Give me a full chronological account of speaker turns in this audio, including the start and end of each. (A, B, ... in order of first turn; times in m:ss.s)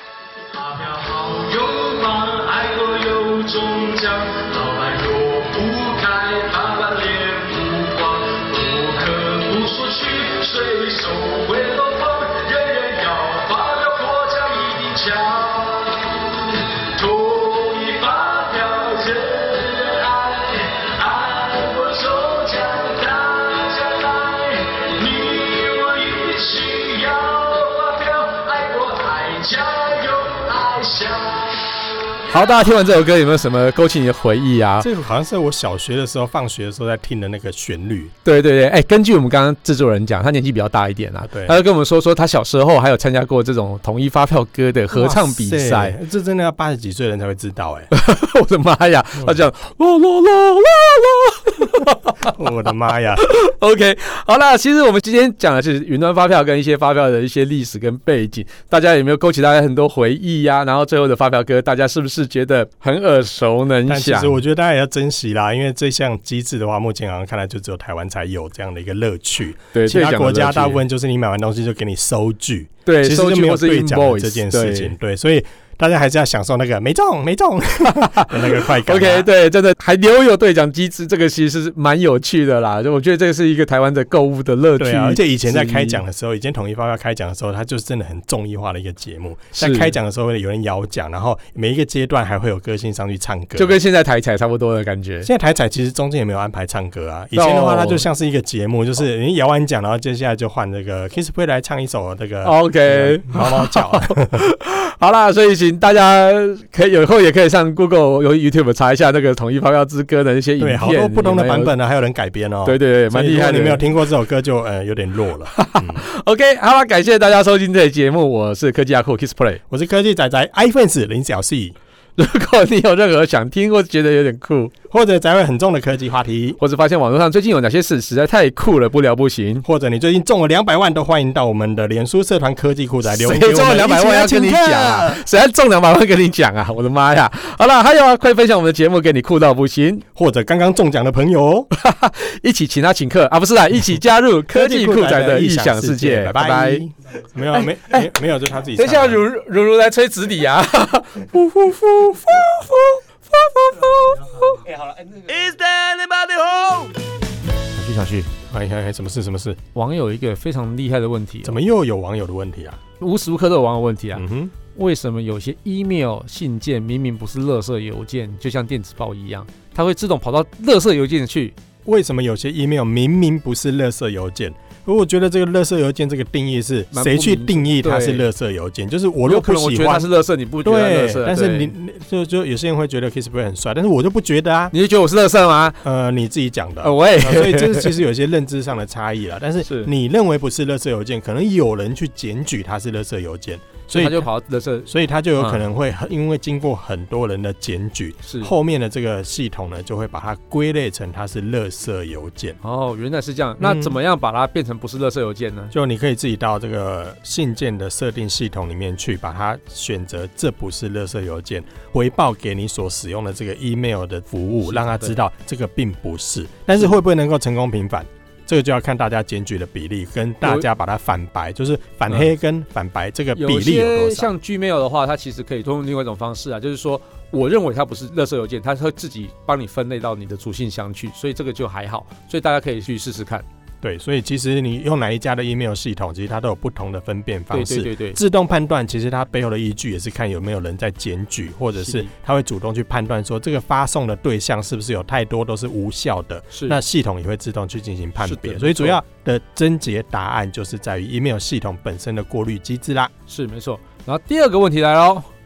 0:00.5-0:32.3 A
0:32.3-0:34.9 B
0:34.8-0:38.1 C
0:38.2-0:46.0 B
0:41.2-0:41.6 C
0:44.9-0:47.9 C
0:47.9-0:52.4 B
0:52.2-0:53.2 C
0:53.2-1:04.4 B
1:03.9-1:19.3 C
1:09.7-1:10.8 B
1:12.8-1:14.9 B
1:17.8-1:26.0 B
1:24.8-1:33.8 C
1:29.6-1:29.9 B
1:33.6-1:35.3 B
1:35.2-1:44.4 C
1:37.3-1:38.0 B
1:42.4-1:51.7 B
1:50.6-1:56.0 C
1:52.6-1:53.8 B
1:55.5-1:59.6 B
1:59.7-2:01.8 C
2:02.2-2:04.7 B
2:04.9-2:06.6 C
2:06.6-2:09.6 B
2:09.6-2:15.2 C
2:13.1-2:20.0 B
2:20.1-2:21.7 C
2:21.7-2:26.8 B
2:24.5-2:29.2 C
2:27.5-2:28.1 B
2:28.8-2:34.7 B
2:35.3-2:36.5 A
2:37.7-2:38.3 B
2:38.5-2:39.6 C
2:39.7-2:41.6 B
2:41.4-2:42.8 C
2:43.0-2:51.6 B
2:44.2-2:44.5 C
2:51.8-3:00.1 C
2:56.9-2:58.2 B
2:59.2-3:01.7 B
3:00.6-3:04.7 C
3:04.7-3:05.8 B
3:05.8-3:14.2 C
3:06.8-3:08.0 B
3:09.6-3:09.9 B
3:13.9-3:15.6 B
3:14.8-3:22.6 C
3:18.2-3:18.5 B
3:22.6-3:25.7 B
3:23.6-3:24.0 C
3:25.7-3:44.3 C
3:34.6-3:35.2 B
3:43.3-3:53.4 B
3:53.8-4:13.1 C
3:57.5-3:58.2 B
4:01.8-4:02.1 B
4:06.5-4:06.8 B
4:08.2-4:09.0 B
4:13.3-4:15.3 B